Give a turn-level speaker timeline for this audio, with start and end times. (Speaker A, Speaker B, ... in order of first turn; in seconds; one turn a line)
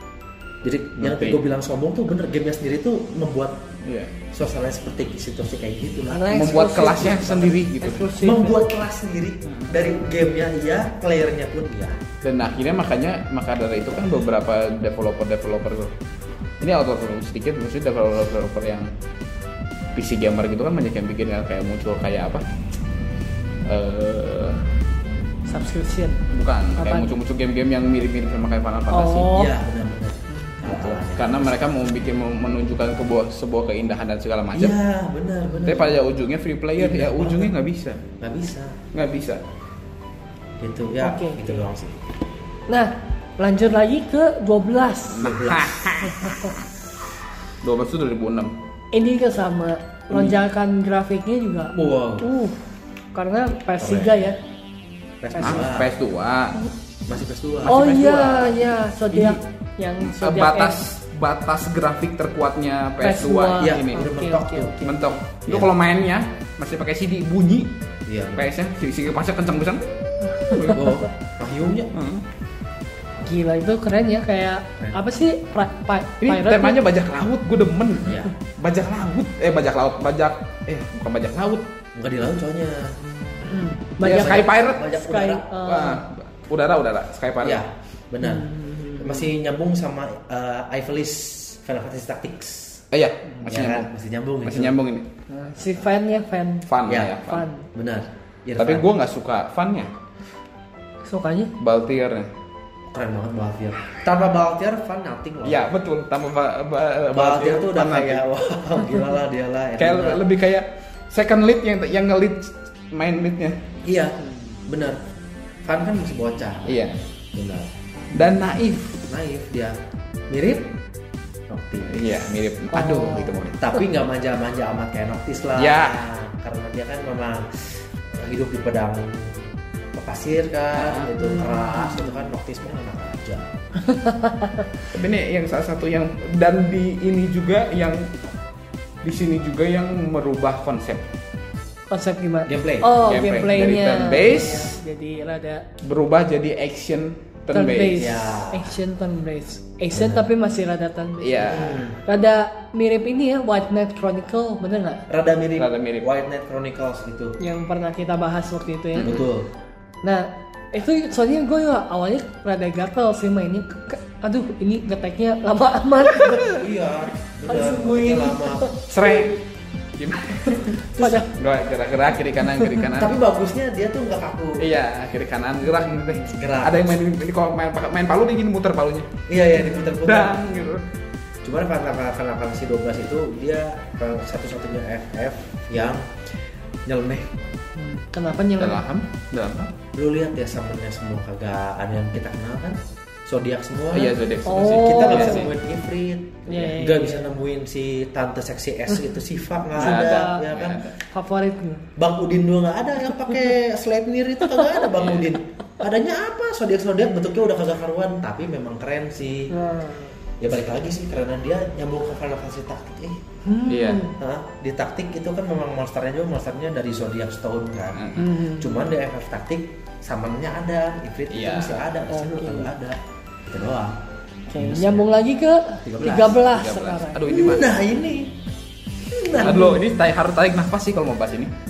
Speaker A: 0.6-3.6
Speaker B: 1.0-1.4
Speaker B: 3.8-4.1
Speaker A: 4.3-12.0
Speaker C: 6.1-8.6
Speaker B: 6.3-8.1
Speaker B: 9.4-9.7
Speaker B: 12.2-15.9
Speaker B: 16.6-18.9
Speaker B: 19.9-22.4
Speaker B: 23.6-24.6
Speaker C: 25.5-26.2
Speaker B: 26.3-29.4
Speaker C: 26.8-27.1
Speaker C: 28.9-29.5
Speaker A: 29.2-31.5
Speaker C: 30.3-30.7
Speaker B: 30.6-34.7
Speaker A: 34.5-36.0
Speaker B: 35.6-38.0
Speaker A: 36.8-37.5
Speaker A: 38.2-38.8
Speaker B: 38.9-39.4
Speaker A: 40.6-42.0
Speaker C: 41.0-41.6
Speaker C: 42.7-45.3
Speaker B: 45.1-46.6
Speaker A: 45.2-45.7
Speaker C: 46.1-46.5
Speaker B: 47.6-48.5
Speaker C: 48.9-52.6
Speaker A: 50.1-50.4
Speaker A: 51.7-52.3
Speaker C: 53.1-54.4
Speaker A: 53.8-54.3
Speaker A: 55.2-55.9
Speaker C: 55.3-55.6
Speaker B: 55.4-56.7
Speaker A: 57.0-57.8
Speaker B: 57.6-58.6
Speaker C: 57.6-60.8
Speaker B: 59.1-59.4
Speaker B: 60.0-64.1
Speaker C: 63.0-65.1
Speaker A: 63.6-64.8
Speaker B: 64.8-67.7
Speaker A: 68.0-68.5
Speaker B: 68.3-70.9
Speaker C: 70.4-70.7
Speaker A: 70.6-71.9
Speaker B: 71.9-72.2
Speaker C: 73.2-76.8
Speaker B: 76.2-81.6
Speaker A: 78.0-78.3
Speaker A: 82.0-83.0
Speaker C: 83.4-86.0
Speaker A: 84.0-85.5
Speaker B: 84.0-84.9
Speaker B: 85.6-87.6
Speaker A: 87.4-92.8
Speaker C: 88.2-89.3
Speaker B: 92.9-93.9
Speaker A: 93.5-94.8
Speaker B: 94.5-95.0
Speaker C: 95.3-96.7
Speaker B: 96.7-97.4
Speaker A: 96.8-97.2
Speaker C: 97.2-97.7
Speaker A: 97.7-98.8
Speaker B: 98.6-99.9
Speaker C: 101.0-101.5
Speaker B: 101.6-102.3
Speaker A: 102.9-105.7
Speaker B: 105.4-108.2
Speaker A: 107.1-110.2
Speaker B: 109.8-113.6
Speaker A: 113.8-115.0
Speaker A: 115.6-118.2
Speaker B: 116.7-117.0
Speaker B: 118.1-119.0
Speaker A: 119.1-119.8
Speaker A: 120.3-120.7
Speaker A: 121.5-122.3
Speaker B: 121.9-123.6
Speaker C: 122.7-123.4
Speaker A: 123.5-133.5
Speaker B: 125.6-126.0
Speaker B: 130.8-131.1
Speaker C: 131.2-132.1
Speaker C: 133.8-134.7
Speaker B: 134.9-138.1
Speaker B: 139.0-141.0
Speaker C: 141.9-145.7
Speaker A: 142.5-143.0
Speaker B: 143.0-144.7
Speaker B: 145.8-148.1
Speaker C: 147.5-155.1
Speaker A: 148.0-148.7
Speaker A: 149.9-150.2
Speaker B: 151.2-151.8
Speaker A: 151.4-152.0
Speaker A: 155.1-157.3
Speaker B: 155.6-156.1
Speaker C: 157.4-159.2
Speaker B: 159.0-159.3
Speaker A: 159.0-159.5
Speaker C: 160.0-166.5
Speaker A: 166.1-168.7
Speaker C: 167.5-169.4
Speaker B: 168.9-169.4
Speaker B: 169.9-173.1
Speaker C: 170.3-171.3
Speaker A: 172.9-174.7
Speaker B: 174.6-179.1
Speaker A: 176.3-177.0
Speaker A: 179.3-180.7
Speaker B: 180.0-180.8
Speaker A: 181.4-186.3
Speaker A: 186.8-187.3
Speaker C: 187.8-188.8
Speaker B: 188.6-189.7
Speaker A: 189.9-194.2
Speaker B: 193.9-195.5
Speaker C: 194.4-195.5
Speaker A: 194.7-200.8
Speaker C: 196.5-197.3
Speaker B: 199.8-200.9
Speaker C: 199.8-200.4
Speaker C: 201.0-201.8
Speaker A: 201.9-209.5
Speaker B: 204.9-205.3
Speaker C: 209.5-210.1
Speaker A: 210.4-213.2
Speaker C: 213.4-214.1
Speaker B: 213.7-214.1
Speaker A: 214.2-224.0
Speaker B: 217.9-218.3
Speaker C: 218.2-218.8
Speaker B: 221.3-221.8
Speaker C: 222.1-222.7
Speaker C: 224.5-227.2
Speaker A: 224.6-225.1
Speaker A: 225.8-226.4
Speaker B: 226.4-227.7
Speaker A: 227.3-228.3
Speaker A: 229.0-229.8
Speaker C: 229.3-229.8
Speaker B: 229.4-231.5